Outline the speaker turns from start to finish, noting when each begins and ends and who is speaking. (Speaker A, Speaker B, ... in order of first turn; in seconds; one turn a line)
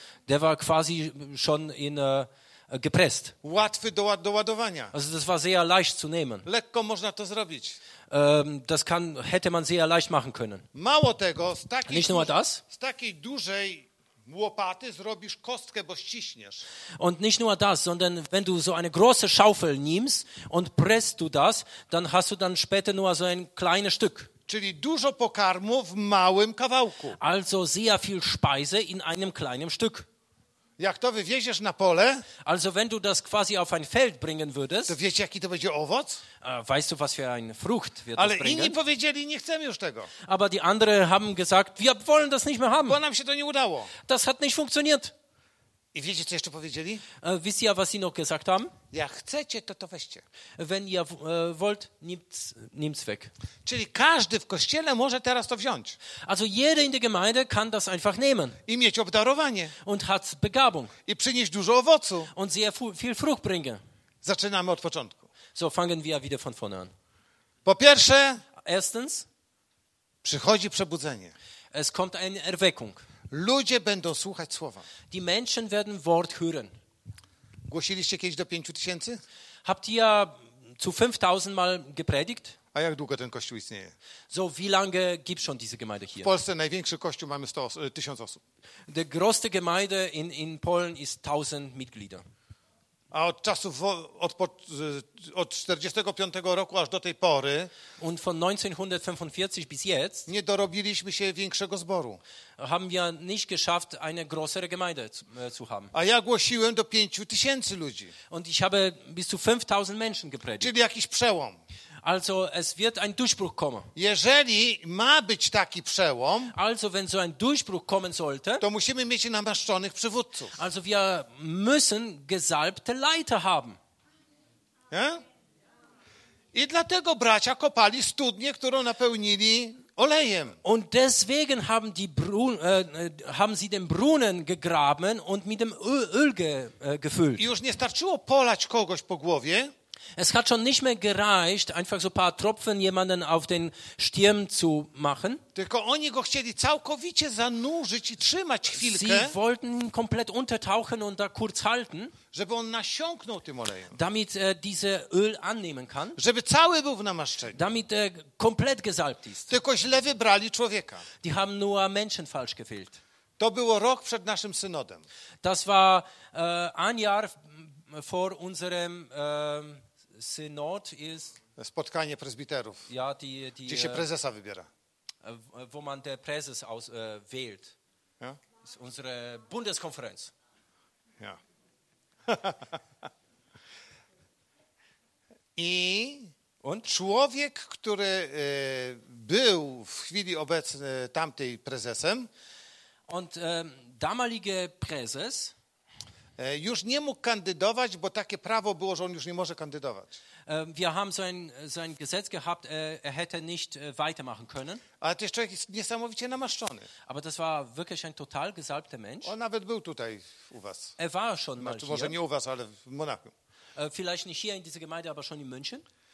Speaker A: 0.3-3.4
Speaker B: 3.4-4.9
Speaker A: 4.9-6.5
Speaker B: 6.5-7.8
Speaker A: 8.1-10.7
Speaker B: 10.7-16.6
Speaker A: 11.9-12.6
Speaker A: 17.0-24.3
Speaker B: 24.5-27.2
Speaker A: 27.2-30.1
Speaker B: 30.8-32.3
Speaker A: 32.4-35.0
Speaker B: 34.9-36.2
Speaker A: 36.4-38.8
Speaker B: 38.2-40.1
Speaker A: 40.2-43.0
Speaker B: 42.9-43.9
Speaker A: 44.0-45.1
Speaker B: 45.9-47.0
Speaker A: 47.2-48.7
Speaker B: 48.9-50.2
Speaker A: 50.6-53.3
Speaker B: 53.6-56.0
Speaker A: 56.2-58.6
Speaker B: 58.7-59.8
Speaker A: 59.8-60.9
Speaker B: 61.1-62.3
Speaker A: 62.3-63.8
Speaker B: 64.2-65.3
Speaker A: 65.5-66.9
Speaker B: 67.7-68.4
Speaker A: 68.6-69.3
Speaker B: 70.2-71.3
Speaker A: 71.7-73.0
Speaker B: 73.3-74.9
Speaker A: 75.1-76.7
Speaker B: 77.7-79.2
Speaker A: 79.7-82.6
Speaker B: 82.7-83.9
Speaker A: 84.3-86.3
Speaker B: 86.2-88.4
Speaker A: 88.9-92.2
Speaker B: 93.1-97.7
Speaker A: 98.0-100.3
Speaker B: 100.3-102.2
Speaker A: 102.6-105.9
Speaker B: 105.9-108.2
Speaker A: 108.3-110.7
Speaker B: 110.6-111.6
Speaker A: 112.0-113.9
Speaker B: 114.0-116.5
Speaker A: 116.5-118.7
Speaker B: 118.6-120.6
Speaker A: 120.5-123.8
Speaker B: 124.9-125.2
Speaker B: 126.5-130.6
Speaker A: 130.6-137.5
Speaker B: 137.4-139.7
Speaker A: 140.2-145.4
Speaker B: 145.6-149.4
Speaker A: 148.7-152.2
Speaker B: 152.3-154.0
Speaker A: 153.9-156.2
Speaker B: 156.2-157.6
Speaker A: 157.5-159.6
Speaker B: 159.5-161.1
Speaker A: 161.2-163.0
Speaker B: 163.4-165.1
Speaker A: 165.4-171.4
Speaker B: 171.6-172.9
Speaker A: 172.9-174.1
Speaker B: 173.7-174.7
Speaker A: 175.2-177.8
Speaker A: 178.6-180.3
Speaker B: 182.3-182.8
Speaker B: 185.6-186.3
Speaker B: 186.9-192.3
Speaker A: 193.1-195.5
Speaker B: 196.4-200.2
Speaker A: 200.5-204.8
Speaker B: 205.0-206.9
Speaker A: 207.1-209.3
Speaker B: 209.2-210.9
Speaker A: 211.0-212.2
Speaker B: 211.6-213.3
Speaker A: 213.8-215.9